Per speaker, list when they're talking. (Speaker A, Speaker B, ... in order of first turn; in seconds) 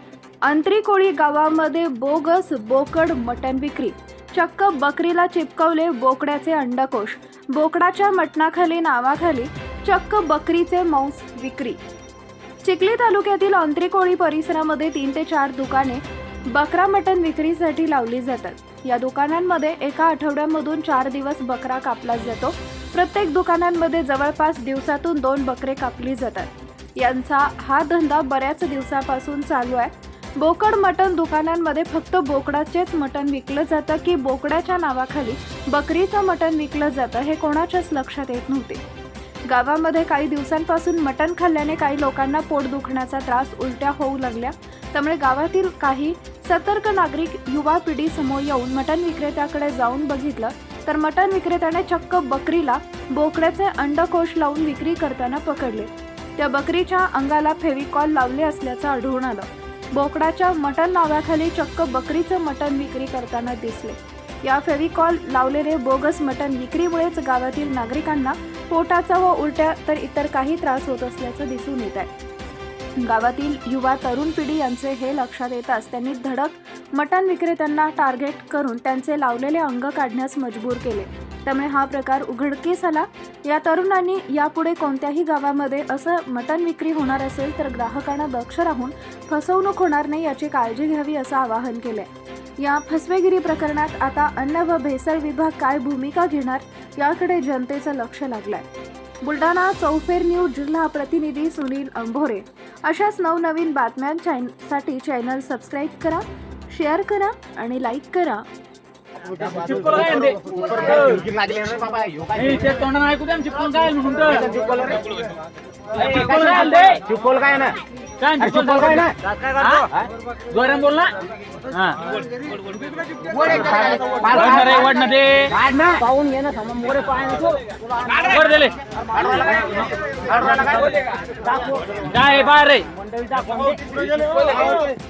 Speaker A: 0.4-11.8, 12.6-38.8, 39.5-72.1, 73.0-92.1, 92.6-98.6, 99.2-108.4
Speaker B: 109.4-111.2, 112.3-114.5, 115.9-117.0, 118.2-119.9, 120.5-121.1, 121.7-122.0, 123.7-125.6, 128.1-128.8, 132.0-132.9, 133.8-134.8
Speaker C: 110.3-112.6, 114.3-115.1, 116.0-117.8, 118.4-119.1, 123.3-128.3, 129.1-132.0, 133.0-133.9, 134.5-134.8